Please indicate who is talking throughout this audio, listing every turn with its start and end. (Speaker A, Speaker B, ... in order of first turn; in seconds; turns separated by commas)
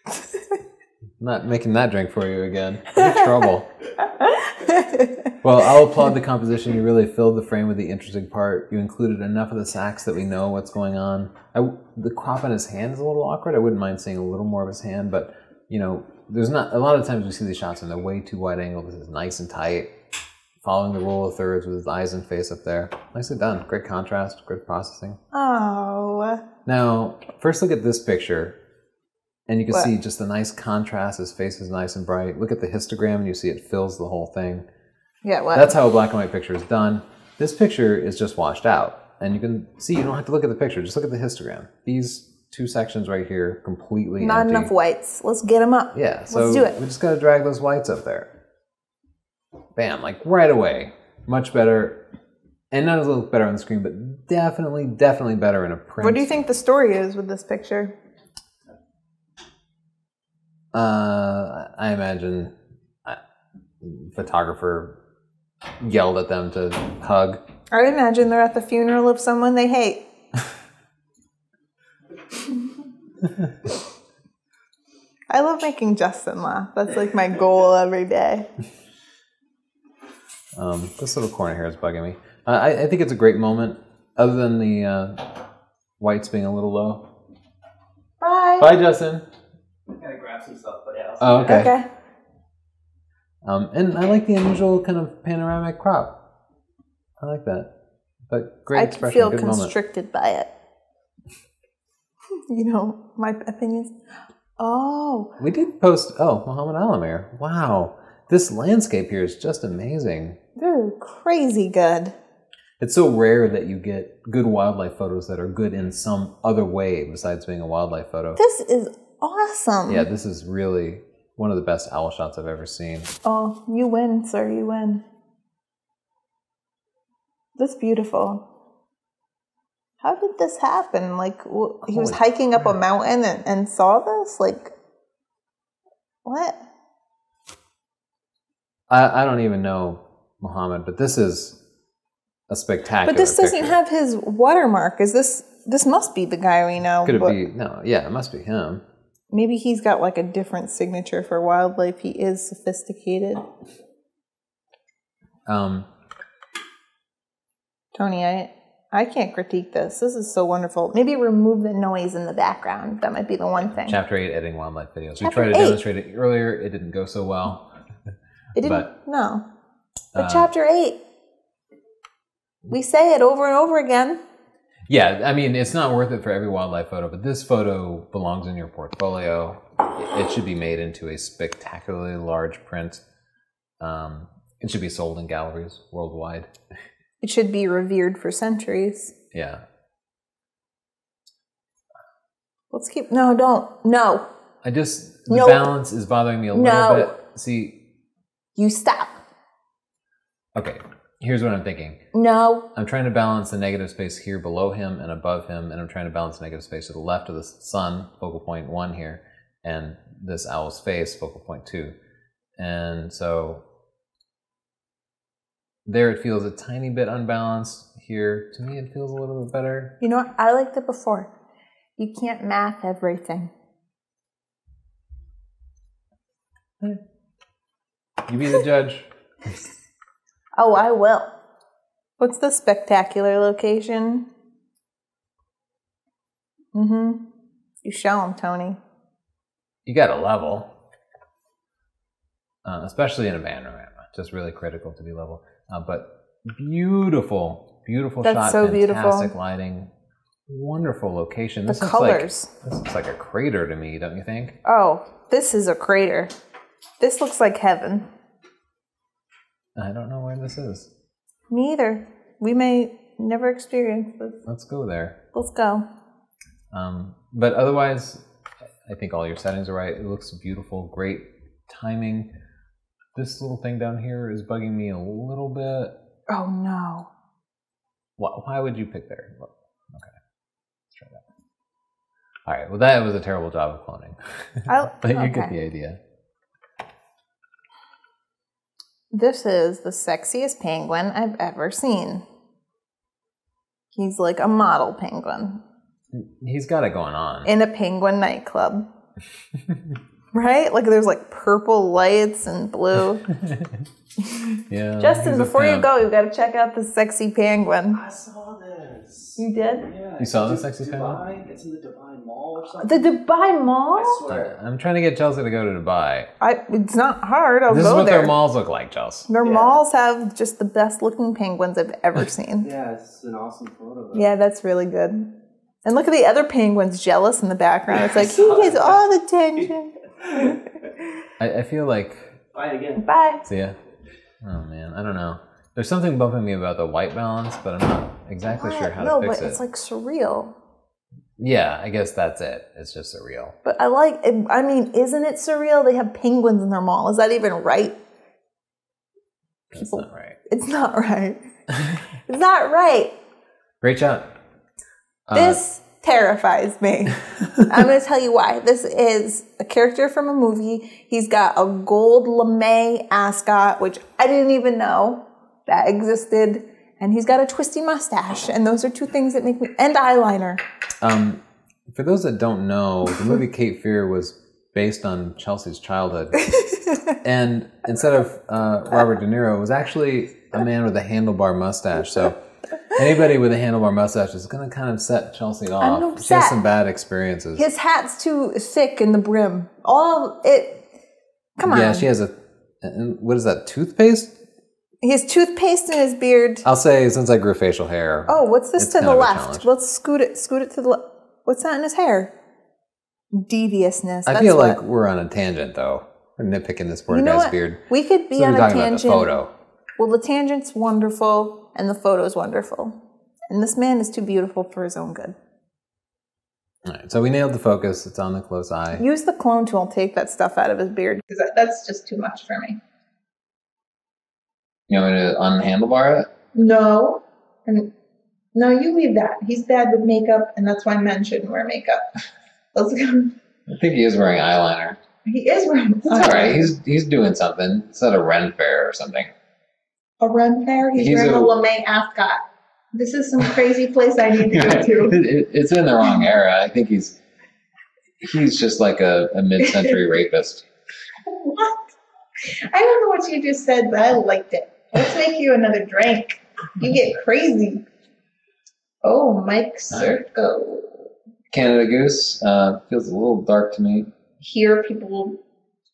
Speaker A: 1.2-3.7, Speaker B: 4.2-5.3, Speaker A: 5.4-19.9, Speaker A: 20.6-25.2, Speaker B: 25.3-26.4, Speaker A: 26.6-28.6, Speaker A: 29.5-34.7, Speaker B: 35.2-35.7, Speaker A: 35.5-44.7, Speaker B: 44.2-46.8, Speaker A: 45.9-48.3, Speaker A: 49.8-52.0, Speaker A: 52.7-56.4, Speaker B: 56.0-57.9, Speaker A: 60.7-62.5, Speaker A: 63.8-65.0, Speaker A: 65.8-67.4, Speaker B: 67.7-70.1, Speaker B: 75.3-78.5, Speaker A: 80.6-85.4, Speaker A: 86.0-87.1, Speaker B: 88.2-88.7, Speaker A: 88.6-89.3, Speaker C: 89.9-91.7, Speaker A: 91.2-91.8, Speaker B: 91.5-91.9, Speaker A: 93.4-96.2, Speaker A: 97.2-97.7, Speaker A: 98.3-99.8, Speaker B: 98.8-100.5, Speaker B: 102.5-104.0, Speaker B: 104.6-105.3, Speaker A: 105.4-110.4, Speaker B: 110.6-112.2, Speaker A: 112.8-118.4, Speaker B: 118.4-120.1, Speaker A: 119.9-123.1, Speaker B: 123.2-125.0, Speaker B: 127.6-128.5, Speaker B: 130.0-134.7, Speaker A: 131.9-132.8, Speaker B: 136.2-136.6, Speaker A: 138.9-141.6, Speaker A: 142.5-143.8, Speaker B: 143.0-147.4, Speaker A: 147.0-148.8, Speaker B: 149.3-153.5, Speaker A: 155.5-155.9, Speaker B: 157.9-164.0, Speaker A: 163.8-167.7, Speaker B: 165.2-165.8, Speaker B: 168.6-169.5, Speaker A: 168.6-168.9, Speaker A: 170.2-170.5, Speaker B: 170.2-171.0, Speaker B: 172.7-174.2, Speaker A: 174.9-183.0, Speaker A: 183.8-186.5, Speaker B: 187.2-189.1, Speaker A: 189.3-189.6, Speaker B: 192.7-194.3, Speaker A: 194.6-197.8, Speaker B: 195.3-195.7, Speaker B: 196.5-197.2, Speaker B: 198.6-199.2, Speaker A: 200.6-202.0, Speaker B: 202.1-202.7, Speaker A: 202.8-211.9, Speaker A: 212.6-213.6, Speaker A: 215.9-220.0, Speaker B: 220.0-221.3, Speaker B: 222.0-223.5, Speaker A: 228.3-229.1, Speaker B: 230.6-231.3, Speaker B: 232.2-234.3, Speaker B: 236.7-237.3, Speaker B: 237.8-238.8, Speaker A: 239.9-240.7, Speaker A: 242.7-249.9, Speaker B: 248.2-249.3, Speaker A: 250.5-254.6, Speaker B: 251.7-252.5, Speaker B: 254.7-256.3, Speaker B: 257.0-258.1, Speaker A: 259.8-260.9, Speaker B: 261.5-264.4, Speaker A: 264.5-265.2, Speaker B: 265.3-265.9, Speaker A: 266.7-268.2, Speaker A: 268.9-272.3, Speaker A: 273.1-276.0, Speaker B: 276.3-277.1, Speaker A: 278.2-280.1, Speaker A: 280.9-281.2, Speaker A: 282.5-286.0, Speaker B: 284.7-285.5, Speaker B: 289.1-292.2, Speaker B: 293.9-295.6, Speaker A: 296.1-297.5, Speaker B: 297.4-298.9, Speaker A: 299.7-300.0, Speaker B: 300.3-303.3, Speaker A: 303.3-303.8, Speaker B: 304.2-308.0, Speaker A: 304.7-305.9, Speaker C: 307.9-313.1, Speaker B: 309.4-309.9, Speaker A: 310.2-311.2, Speaker B: 312.8-314.2, Speaker C: 313.9-314.6, Speaker A: 314.3-316.3, Speaker B: 316.4-318.3, Speaker A: 317.7-319.3, Speaker B: 319.3-322.7, Speaker C: 319.4-319.8, Speaker C: 322.6-324.3, Speaker B: 324.1-325.3, Speaker B: 325.9-330.6, Speaker C: 328.0-328.9, Speaker A: 331.4-332.3, Speaker C: 332.5-333.1, Speaker B: 333.0-333.4, Speaker A: 333.5-333.8, Speaker A: 334.4-339.6, Speaker B: 338.6-340.6, Speaker A: 341.4-343.6, Speaker B: 343.6-348.0, Speaker A: 349.7-350.4, Speaker B: 349.8-351.4, Speaker B: 352.3-353.2, Speaker A: 353.8-354.3, Speaker A: 355.3-355.6, Speaker B: 355.3-370.6, Speaker A: 371.0-376.5, Speaker B: 376.6-377.1, Speaker A: 377.2-387.7, Speaker B: 385.8-386.6, Speaker B: 387.6-390.8, Speaker B: 391.6-392.1, Speaker A: 391.6-394.4, Speaker B: 395.0-396.6, Speaker A: 396.6-399.7, Speaker B: 398.3-402.3, Speaker B: 403.3-404.8, Speaker A: 404.3-407.8, Speaker B: 407.1-409.3, Speaker A: 408.4-409.5, Speaker B: 410.0-413.0, Speaker B: 413.5-415.4, Speaker A: 416.9-419.1, Speaker B: 418.9-422.8, Speaker A: 424.9-426.3, Speaker B: 426.5-427.9, Speaker B: 428.6-432.0, Speaker B: 432.7-433.4, Speaker A: 433.7-435.0, Speaker B: 435.2-436.7, Speaker A: 436.1-439.3, Speaker B: 440.2-442.4, Speaker A: 440.9-441.5, Speaker B: 442.9-445.2, Speaker A: 444.5-447.2, Speaker A: 448.2-450.7, Speaker B: 449.6-449.9, Speaker B: 451.3-452.0, Speaker B: 452.7-457.9, Speaker B: 459.0-461.0, Speaker A: 461.5-464.1, Speaker B: 464.4-465.4